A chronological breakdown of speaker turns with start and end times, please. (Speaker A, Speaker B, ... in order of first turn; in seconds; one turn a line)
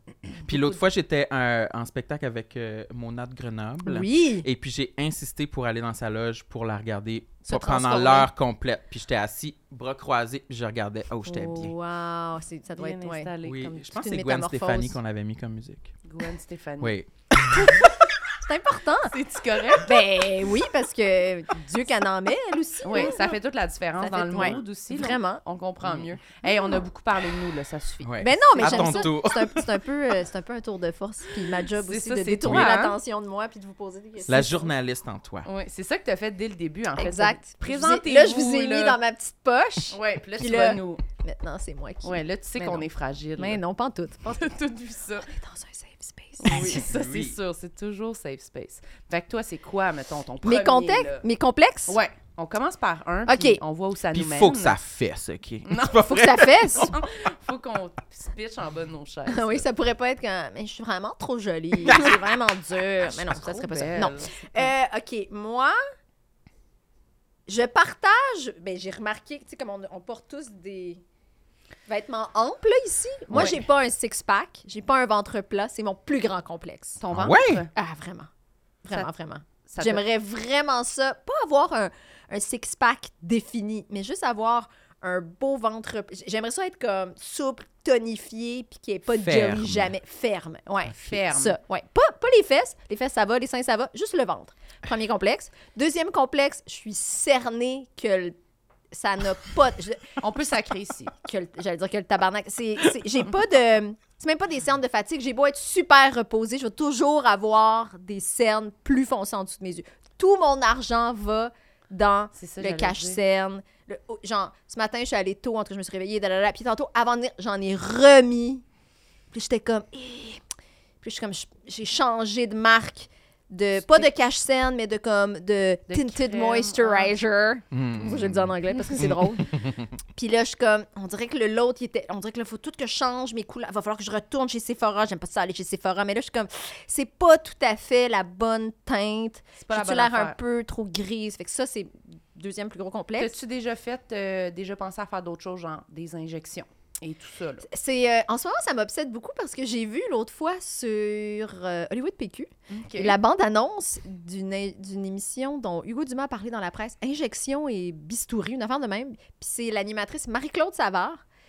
Speaker A: 0.4-11.7
Speaker B: 3.8-4.5
Speaker B: 7.5-8.3
Speaker B: 11.2-15.0
Speaker C: 12.8-13.8
Speaker A: 13.4-15.9
Speaker C: 16.1-16.9
Speaker A: 16.8-17.8
Speaker B: 18.4-19.1
Speaker C: 19.1-19.9
Speaker B: 19.8-23.4
Speaker C: 22.8-29.1
Speaker B: 24.0-25.4
Speaker B: 26.4-26.8
Speaker A: 28.0-29.7
Speaker B: 28.2-34.7
Speaker C: 31.8-33.0
Speaker A: 32.4-32.7
Speaker A: 34.2-35.5
Speaker C: 35.4-39.0
Speaker B: 37.0-42.9
Speaker C: 39.9-41.0
Speaker C: 42.0-43.6
Speaker B: 43.4-44.5
Speaker C: 44.3-45.3
Speaker B: 45.2-46.8
Speaker C: 46.4-51.2
Speaker A: 46.5-47.4
Speaker B: 50.4-52.0
Speaker C: 51.9-54.8
Speaker B: 53.3-53.6
Speaker A: 54.1-56.9
Speaker C: 55.6-59.6
Speaker B: 56.0-57.0
Speaker B: 59.3-65.8
Speaker C: 63.0-64.7
Speaker B: 67.5-71.0
Speaker B: 71.9-77.0
Speaker A: 73.3-73.6
Speaker C: 77.0-77.7
Speaker A: 77.1-77.6
Speaker B: 77.7-78.3
Speaker B: 78.8-98.3
Speaker C: 79.7-80.0
Speaker A: 89.1-89.9
Speaker C: 90.7-91.6
Speaker B: 98.9-100.2
Speaker C: 100.2-101.1
Speaker B: 101.2-118.6
Speaker C: 112.3-113.2
Speaker B: 119.3-120.4
Speaker B: 121.0-129.6
Speaker C: 123.8-124.1
Speaker C: 125.9-127.1
Speaker A: 127.7-129.9
Speaker B: 130.1-143.3
Speaker C: 139.6-140.4
Speaker C: 143.2-147.7
Speaker B: 147.7-161.2
Speaker C: 152.7-153.2